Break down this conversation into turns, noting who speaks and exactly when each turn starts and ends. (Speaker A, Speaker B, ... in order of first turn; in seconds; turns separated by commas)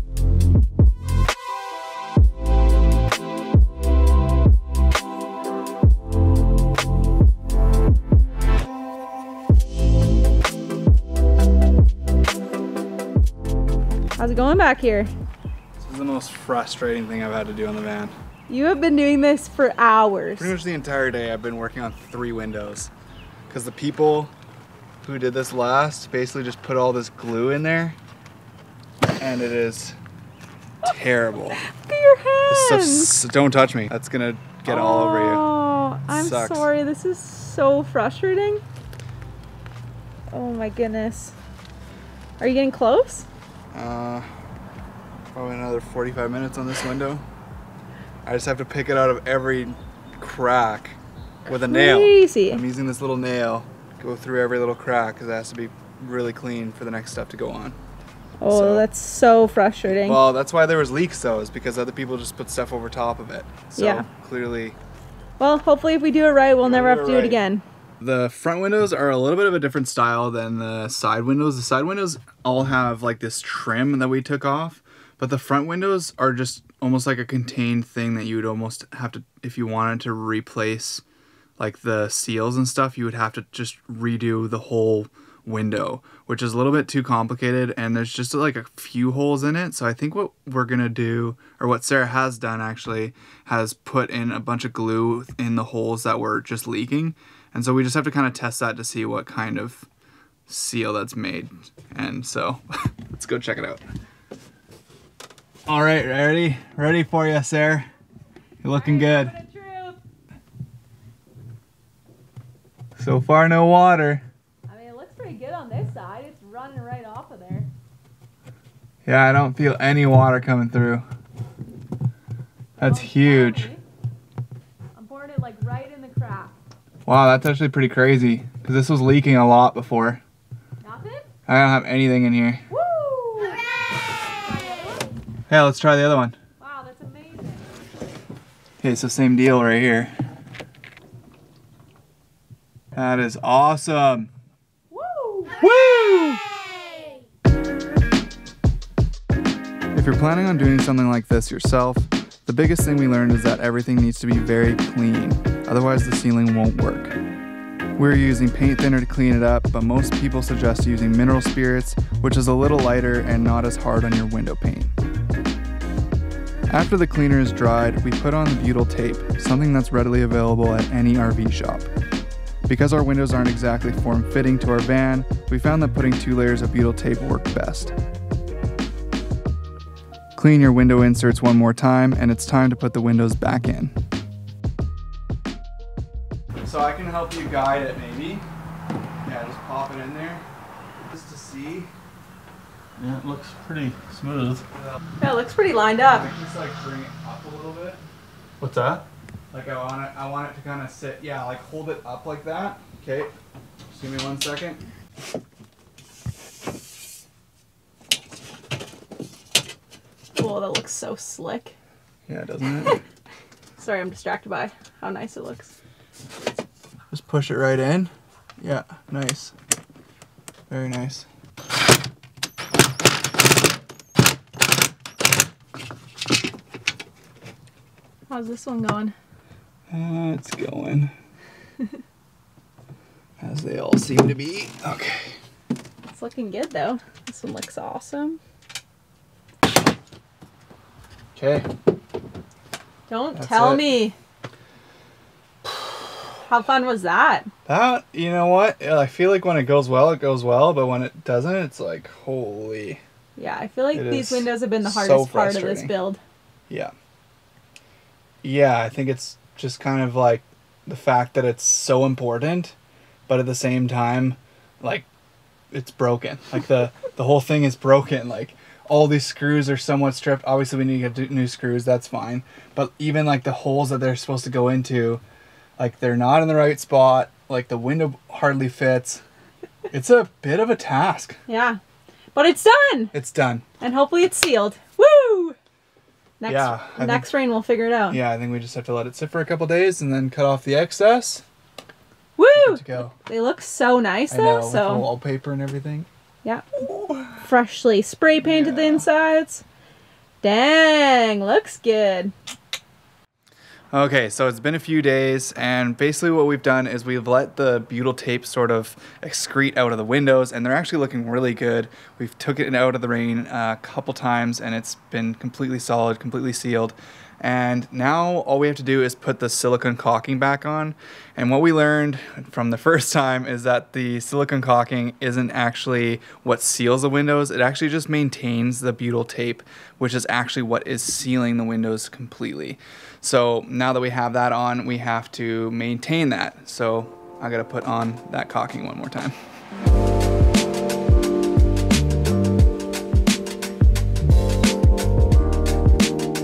Speaker A: 14.2-15.1, Speaker B: 15.8-18.1, Speaker A: 18.5-20.5, Speaker B: 20.3-22.9, Speaker B: 23.5-24.3, Speaker B: 25.0-28.0, Speaker B: 29.2-30.0, Speaker B: 30.8-31.6, Speaker A: 31.6-33.2, Speaker B: 32.5-35.5, Speaker A: 34.7-38.6, Speaker B: 36.1-36.7, Speaker A: 40.3-41.3, Speaker A: 42.4-43.2, Speaker B: 43.7-44.3, Speaker B: 45.3-47.2, Speaker B: 48.2-57.8, Speaker A: 51.5-52.6, Speaker A: 58.4-60.2, Speaker B: 58.5-58.9, Speaker B: 59.9-64.8, Speaker A: 63.8-64.1, Speaker A: 65.4-67.6, Speaker B: 66.6-67.4, Speaker B: 68.0-81.0, Speaker B: 81.6-99.9, Speaker B: 100.5-103.8, Speaker B: 105.7-107.9, Speaker B: 108.6-109.3, Speaker A: 108.7-110.0, Speaker B: 113.0-114.2, Speaker A: 114.7-117.7, Speaker B: 119.0-121.0, Speaker B: 122.8-123.7, Speaker A: 122.8-123.8, Speaker A: 125.0-126.5, Speaker B: 127.0-130.2, Speaker A: 130.8-131.3, Speaker B: 131.5-132.6, Speaker A: 132.7-133.6, Speaker A: 134.4-135.2, Speaker B: 135.5-136.4, Speaker A: 136.6-137.7, Speaker B: 138.8-140.1, Speaker B: 142.9-144.3, Speaker A: 144.9-145.6, Speaker B: 145.6-146.4, Speaker B: 149.9-157.2, Speaker B: 158.0-164.9, Speaker B: 166.7-171.9, Speaker B: 172.7-177.9, Speaker B: 180.3-183.9, Speaker B: 186.6-188.4, Speaker B: 189.2-190.4, Speaker B: 191.1-191.9, Speaker C: 193.0-194.6, Speaker A: 195.2-196.3, Speaker B: 196.1-198.0, Speaker C: 198.6-199.0, Speaker B: 199.5-203.3, Speaker B: 203.9-204.8, Speaker A: 210.3-211.7, Speaker B: 212.3-213.0, Speaker A: 213.8-215.7, Speaker B: 217.1-219.5, Speaker B: 220.7-221.3, Speaker A: 228.3-229.2, Speaker B: 229.9-231.1, Speaker B: 233.4-235.4, Speaker A: 236.1-238.4, Speaker B: 241.3-241.7, Speaker A: 243.1-244.2, Speaker B: 243.3-244.0, Speaker A: 246.5-247.5, Speaker B: 247.7-253.0, Speaker A: 253.3-256.2, Speaker B: 253.9-255.9, Speaker B: 258.4-262.8, Speaker B: 263.3-265.1, Speaker B: 265.7-275.2, Speaker B: 275.8-279.2, Speaker B: 279.9-281.4, Speaker A: 281.5-281.8, Speaker A: 282.3-283.1, Speaker B: 283.1-283.6, Speaker A: 283.8-285.6, Speaker A: 286.4-288.2, Speaker B: 286.5-287.3, Speaker B: 288.1-291.4, Speaker A: 292.4-295.1, Speaker B: 292.5-293.1, Speaker B: 294.3-296.1, Speaker B: 296.9-297.4, Speaker A: 297.4-299.6, Speaker B: 298.4-299.0, Speaker A: 300.4-302.3, Speaker B: 303.9-339.4